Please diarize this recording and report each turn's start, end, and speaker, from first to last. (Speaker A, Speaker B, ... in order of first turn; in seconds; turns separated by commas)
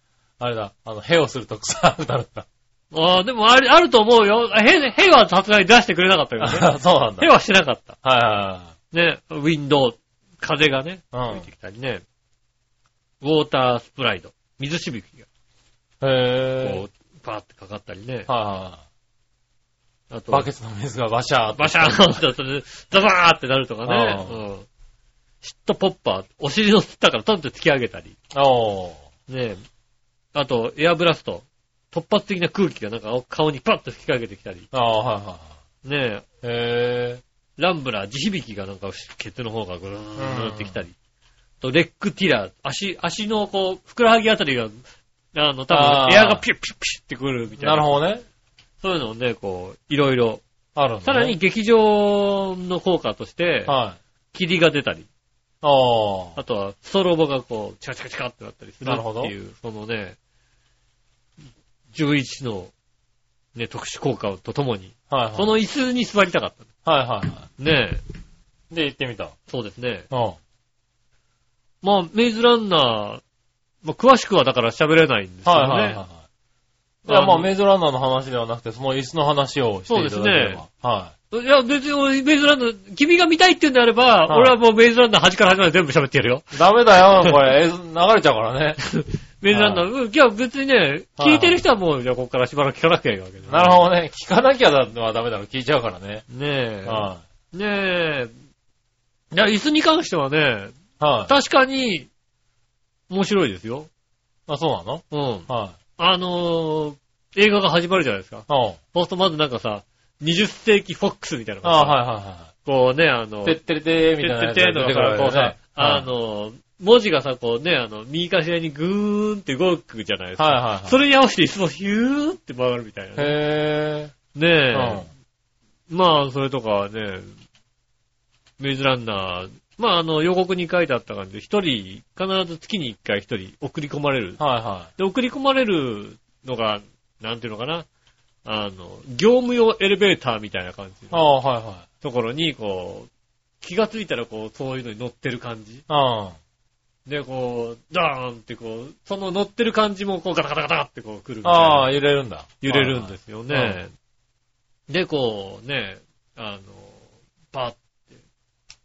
Speaker A: 0.4-2.5, Speaker B: 2.9-8.0, Speaker A: 6.4-7.3, Speaker A: 8.0-8.7, Speaker B: 8.9-12.0, Speaker A: 11.1-11.5, Speaker B: 13.2-15.3, Speaker A: 16.0-16.9, Speaker B: 16.6-18.3, Speaker A: 18.3-18.8, Speaker B: 20.1-20.5, Speaker A: 20.3-22.2, Speaker B: 21.6-24.7, Speaker A: 23.9-24.4, Speaker B: 25.4-28.1, Speaker A: 28.3-29.0, Speaker B: 29.3-29.6, Speaker B: 30.4-34.7, Speaker A: 34.7-35.5, Speaker B: 35.8-36.2, Speaker A: 36.4-37.2, Speaker B: 37.6-40.9, Speaker A: 40.2-40.8, Speaker B: 41.6-44.8, Speaker B: 45.3-47.9, Speaker A: 45.7-46.5, Speaker A: 47.6-48.2, Speaker B: 48.8-50.4, Speaker A: 50.8-51.4, Speaker B: 51.0-53.8, Speaker A: 53.7-54.0, Speaker B: 54.3-55.1, Speaker A: 55.6-56.4, Speaker B: 56.4-60.2, Speaker A: 58.8-59.3, Speaker B: 61.9-62.7, Speaker B: 63.5-66.7, Speaker A: 65.1-65.5, Speaker A: 66.8-67.5, Speaker B: 67.6-68.0, Speaker A: 68.7-69.3, Speaker B: 69.5-70.1, Speaker A: 70.1-70.4, Speaker B: 71.8-73.2, Speaker B: 73.8-76.0, Speaker A: 75.5-76.2, Speaker B: 77.0-77.5, Speaker A: 77.1-81.1, Speaker B: 79.9-80.6, Speaker B: 81.3-86.6, Speaker A: 84.3-84.5, Speaker A: 86.5-88.8, Speaker B: 88.8-93.9, Speaker A: 89.5-89.8, Speaker A: 91.2-91.6, Speaker A: 93.5-96.2, Speaker B: 96.3-98.3, Speaker A: 96.8-97.2, Speaker B: 99.3-100.8, Speaker A: 101.0-101.3, Speaker B: 101.3-102.1, Speaker B: 103.1-103.9, Speaker A: 104.5-105.8, Speaker B: 105.1-112.0, Speaker A: 108.5-108.8, Speaker A: 111.6-112.5, Speaker B: 112.7-113.6, Speaker A: 113.4-116.1, Speaker B: 114.2-123.3, Speaker A: 120.4-121.0, Speaker A: 123.2-124.2, Speaker B: 124.3-125.1, Speaker A: 124.7-125.1, Speaker B: 125.9-127.3, Speaker B: 128.6-134.4, Speaker A: 134.4-134.9, Speaker B: 135.0-137.9, Speaker B: 138.4-141.3, Speaker A: 141.1-141.8, Speaker B: 142.0-143.1, Speaker B: 143.6-145.8, Speaker A: 145.9-146.4, Speaker B: 147.1-152.0, Speaker A: 151.4-153.8, Speaker B: 152.6-153.9, Speaker B: 154.9-157.0, Speaker B: 157.5-157.8